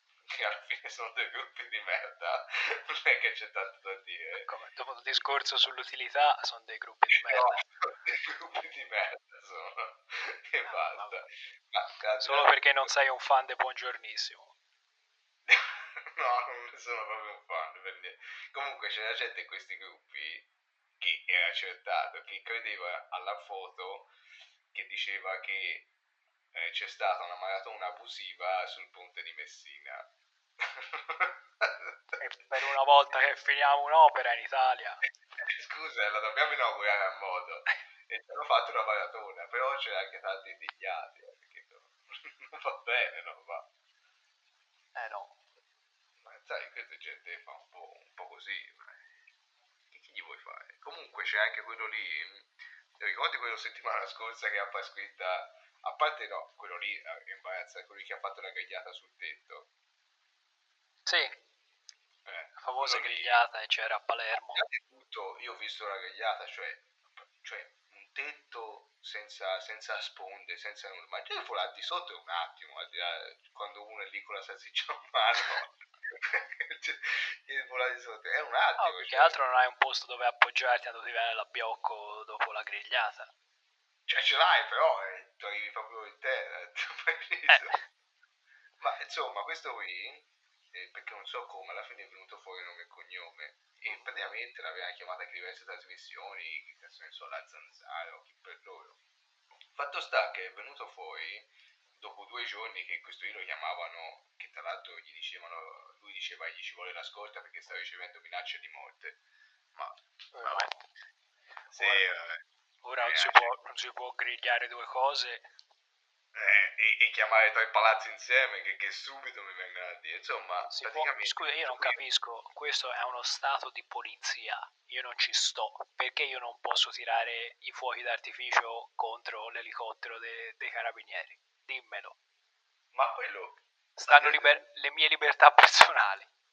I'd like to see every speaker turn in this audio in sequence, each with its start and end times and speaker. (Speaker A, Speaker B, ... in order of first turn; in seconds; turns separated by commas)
Speaker A: 0.3-4.5, Speaker B: 4.4-7.6, Speaker A: 7.1-12.9, Speaker B: 10.6-11.2, Speaker B: 12.2-14.5, Speaker A: 15.5-20.5, Speaker A: 21.0-24.1, Speaker A: 24.7-25.9, Speaker A: 26.5-32.2, Speaker B: 32.2-35.0, Speaker A: 35.4-43.7, Speaker B: 44.9-45.3, Speaker A: 46.2-49.0, Speaker A: 49.9-59.7, Speaker B: 61.0-61.4, Speaker A: 62.2-63.4, Speaker B: 62.6-64.7, Speaker A: 64.5-66.9, Speaker A: 67.4-79.4, Speaker B: 78.8-83.3, Speaker A: 84.1-87.7, Speaker B: 87.5-87.8, Speaker A: 88.8-99.0, Speaker A: 99.7-109.2, Speaker A: 109.7-110.7, Speaker B: 110.3-110.8, Speaker A: 111.7-112.4, Speaker B: 111.7-112.0, Speaker B: 112.8-115.5, Speaker A: 113.0-113.5, Speaker A: 116.3-122.0, Speaker B: 120.6-132.2, Speaker A: 132.9-134.6, Speaker B: 134.0-136.3